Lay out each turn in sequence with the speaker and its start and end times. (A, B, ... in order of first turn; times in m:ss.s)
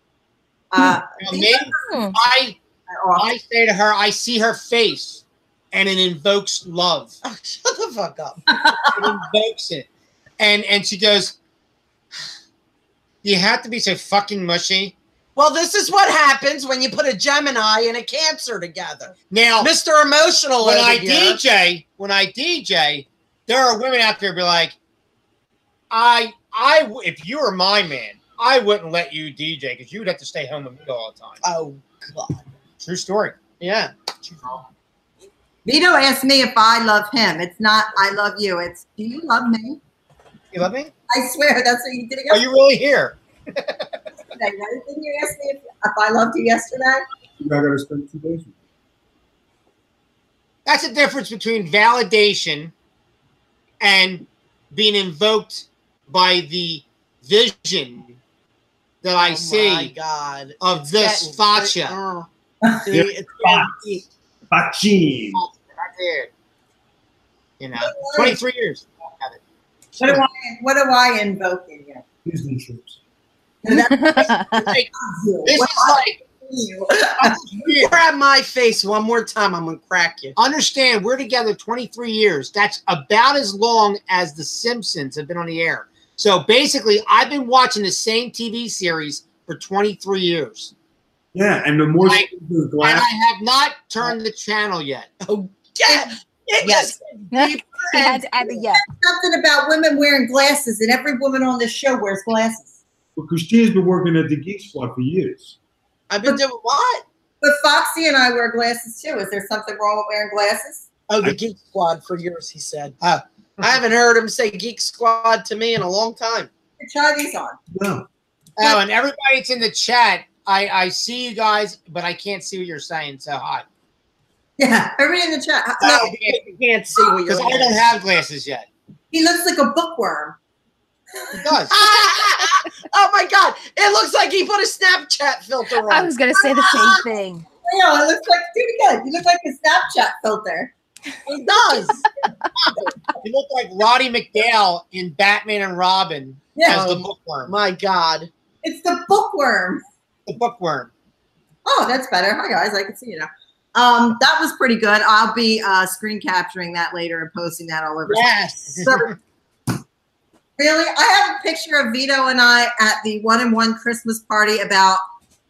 0:00.7-0:01.8 A
0:01.2-0:02.6 B
0:01.9-0:02.2 C
0:02.9-0:03.3 A
0:03.2-0:07.2 B
0:07.2-0:08.4 D
0:08.5-0:09.2 A
0:08.9-0:09.8 B
0:10.4-0:11.4 B
0:13.2-0:14.9 B
0:15.4-0:21.4 D
0:19.3-0:19.7 B
0:20.6-0:24.8 B
0:25.9-0:31.4 B
0:31.4-0:32.4 D
0:32.8-0:33.4 B
0:33.6-0:34.6 D
0:35.6-0:39.8 A
0:40.5-0:40.9 B
0:41.1-0:42.4 A
0:42.3-0:44.0 B
0:44.3-0:47.0 A
0:47.4-0:48.5 E
0:50.6-0:52.7 B
0:53.8-0:58.2 B
0:59.0-0:59.9 B
0:59.2-1:02.3 D
1:00.6-1:02.0 B
1:02.8-1:04.0 D
1:02.9-1:03.8 E
1:04.5-1:05.4 E
1:05.3-1:06.3 B
1:07.6-1:09.4 B
1:07.8-1:08.4 A
1:10.0-1:12.0 A
1:12.2-1:13.0 E
1:13.6-1:17.4 A
1:13.9-1:14.6 C
1:14.2-1:14.9 B
1:15.4-1:16.2 B
1:17.2-1:18.0 B
1:17.8-1:20.4 D
1:20.4-1:30.7 B
1:31.3-1:33.1 E
1:32.8-1:35.1 B
1:35.2-1:38.3 D
1:36.6-1:38.8 C
1:38.8-1:42.7 A
1:43.2-1:45.5 E
1:46.1-1:47.0 D
1:47.4-1:50.8 A
1:51.1-1:53.0 D
1:53.0-1:53.7 B
1:53.6-1:56.5 D
1:56.8-1:57.6 A
1:57.7-1:58.1 E
1:58.6-2:03.6 B
2:04.6-2:06.1 A
2:05.8-2:06.4 B
2:05.9-2:07.8 D
2:07.2-2:08.6 B
2:09.1-2:10.4 A
2:11.1-2:11.5 A
2:11.4-2:11.8 B
2:11.7-2:16.1 D
2:15.8-2:17.4 C
2:17.6-2:20.7 A
2:21.2-2:22.0 D
2:22.7-2:27.5 B
2:26.5-2:26.8 A
2:26.6-2:28.3 D
2:28.6-2:29.8 A
2:30.3-2:30.9 B
2:31.6-2:39.1 A
2:38.1-2:38.8 D
2:40.6-2:45.0 A